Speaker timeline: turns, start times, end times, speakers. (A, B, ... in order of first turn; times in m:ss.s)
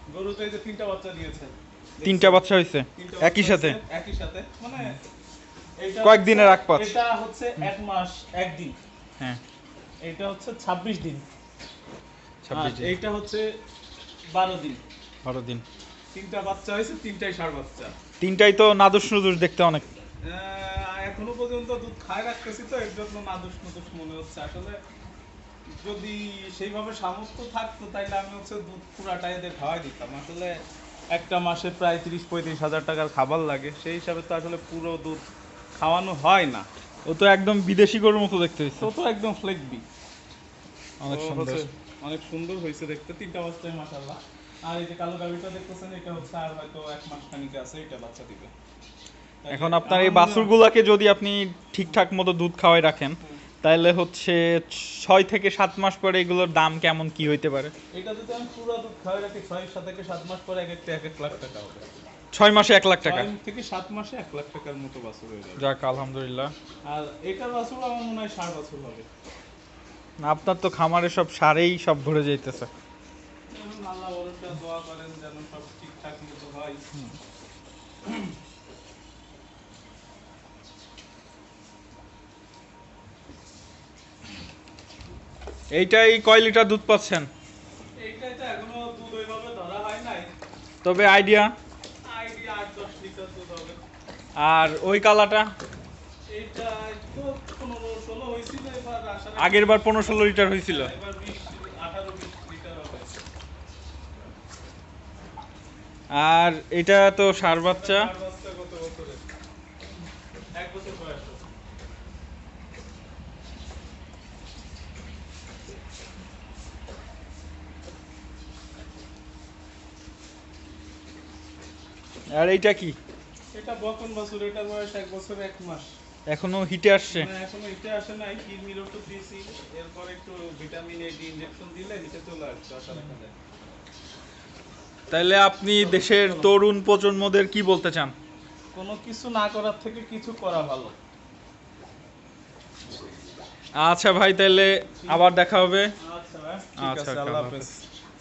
0:00.1-0:02.4 A
0:02.0-0:03.8 B
0:02.9-0:05.0 A
0:05.8-0:08.8 A
0:06.0-0:06.9 B
0:10.0-0:11.2 A
0:12.4-0:12.9 B
0:12.5-0:13.6 A
0:14.3-0:14.8 A
0:15.2-0:15.6 B
0:16.1-0:17.9 A
0:18.2-0:19.9 B
0:20.2-0:24.8 A
0:25.8-0:30.6 A
0:31.1-0:35.2 A
0:35.8-0:36.7 A
0:37.1-0:38.9 B
0:38.8-0:39.8 A
0:41.0-0:41.6 B
0:41.1-0:48.5 A
0:49.4-0:50.5 A
0:49.5-0:57.7 B
0:57.9-1:01.9 A
1:02.3-1:03.3 B
1:03.0-1:05.6 A
1:05.6-1:06.5 B
1:06.8-1:09.0 A
1:10.2-1:12.7 B
1:13.5-1:16.8 A
1:25.7-1:27.3 B
1:28.0-1:30.3 A
1:30.8-1:31.5 B
1:32.0-1:33.8 A
1:34.4-1:35.5 B
1:36.3-1:43.1 A
1:39.4-1:40.9 B
1:46.1-1:48.1 B
1:47.6-1:49.2 A
1:50.6-1:51.4 A
2:02.3-2:03.0 B
2:03.5-2:05.9 A
2:06.3-2:07.3 B
2:07.1-2:13.3 A
2:15.1-2:18.1 B
2:15.8-2:16.5 A
2:18.7-2:20.9 A
2:23.8-2:25.9 B
2:25.0-2:25.3 A
2:26.0-2:27.8 A
2:26.8-2:27.7 B